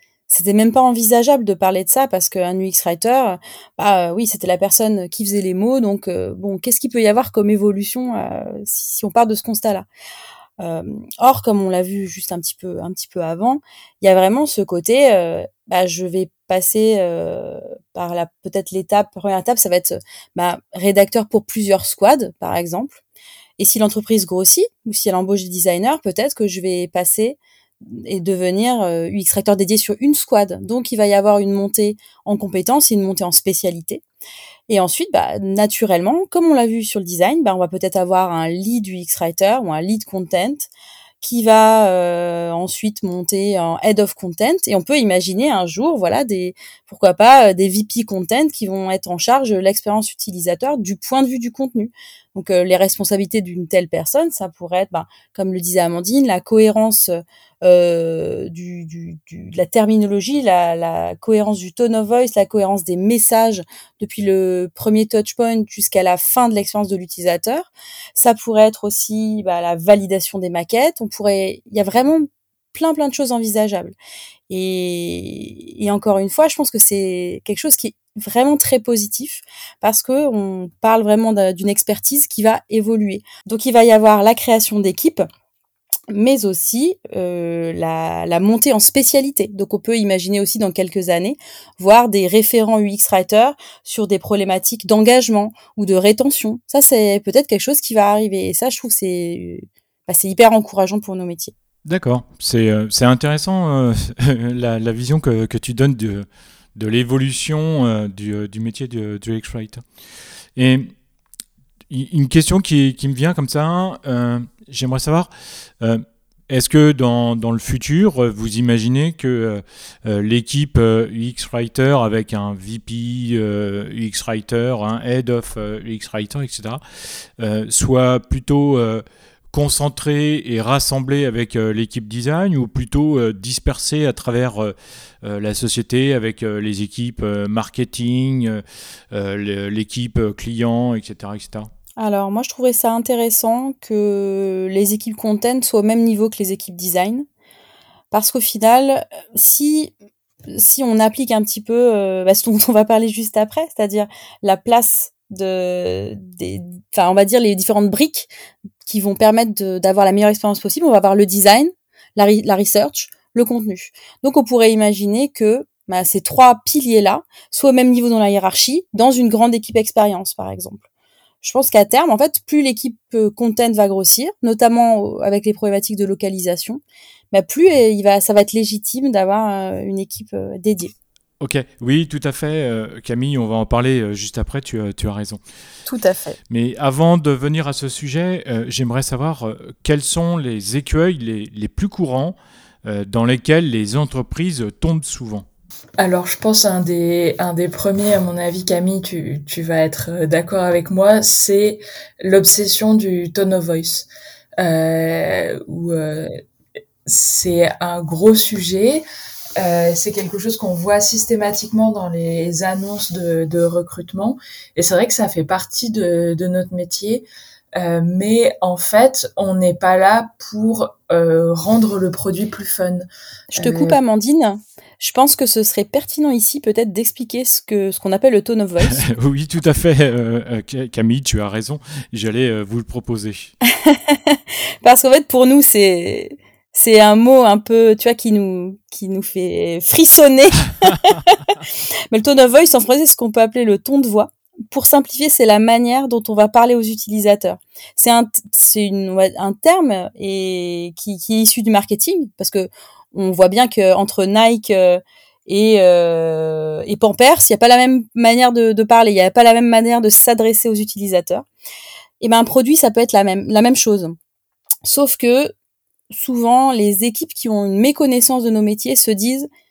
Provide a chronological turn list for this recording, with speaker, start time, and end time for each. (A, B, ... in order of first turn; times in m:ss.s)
0:00.3-0:09.8 A
0:10.6-0:23.0 A
0:23.6-0:34.0 A
0:34.7-0:40.7 A
0:41.2-1:13.9 A
1:14.5-1:25.3 A
1:26.1-1:41.5 A
1:41.8-1:49.8 B
1:50.6-1:50.9 B
1:51.9-1:55.3 B
1:55.8-2:06.8 B
2:07.4-2:21.7 B
2:22.0-2:27.2 A
2:28.1-2:29.9 A
2:30.5-2:38.3 A
2:38.8-2:50.8 A
2:51.4-2:56.8 A
2:57.3-3:00.9 A
3:01.4-3:05.4 B
3:05.9-3:06.4 A
3:06.5-3:15.4 B
3:16.0-3:24.1 C
3:24.6-3:26.4 C
3:27.0-3:29.0 C
3:29.6-3:44.0 C
3:43.5-3:49.0 A
3:48.9-3:53.5 B
3:53.6-4:01.6 A
4:02.1-4:21.4 A
4:22.2-4:24.2 A
4:24.8-4:25.5 A
4:26.1-4:29.5 A